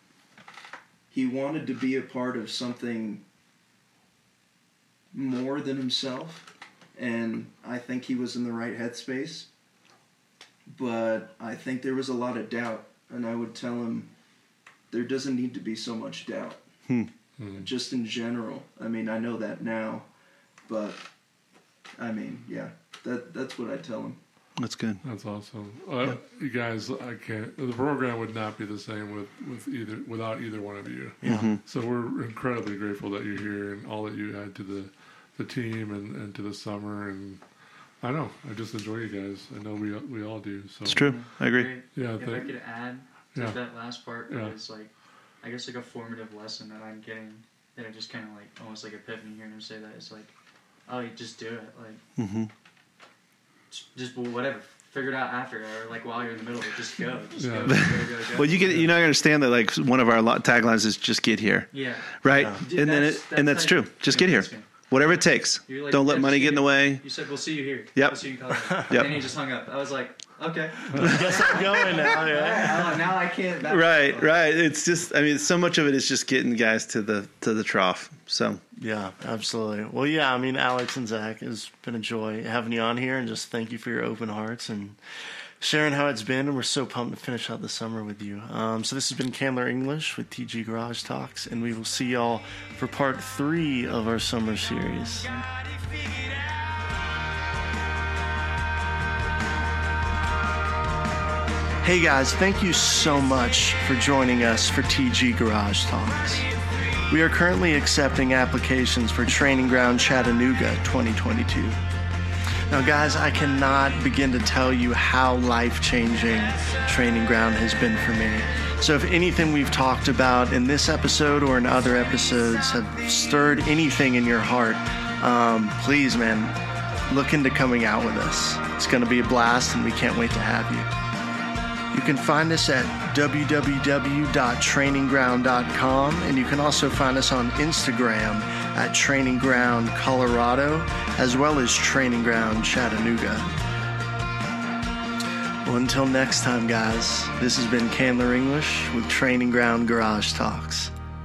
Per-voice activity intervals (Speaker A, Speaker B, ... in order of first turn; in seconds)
Speaker A: 1.1-3.2, 5.1-9.5, 10.7-14.1, 14.9-16.6, 17.6-20.1, 20.7-21.0, 22.0-24.2
Speaker B: 17.4-17.7, 25.0-37.4, 38.0-41.4, 41.9-42.6, 43.3-44.5, 57.4-57.9
Speaker C: 24.6-25.0, 31.2-31.6, 40.9-41.8, 52.2-52.5, 57.6-67.0, 68.0-69.3, 71.0-71.3, 73.7-78.6
Speaker D: 31.2-31.6, 62.4-62.6, 71.0-73.0, 78.8-85.0, 85.6-95.3, 101.8-106.5, 107.1-111.8, 112.7-126.6, 127.1-130.9, 131.9-143.5, 145.6-150.9
Speaker E: 41.0-50.3, 50.9-52.0, 53.7-58.7, 61.7-64.9, 65.6-74.3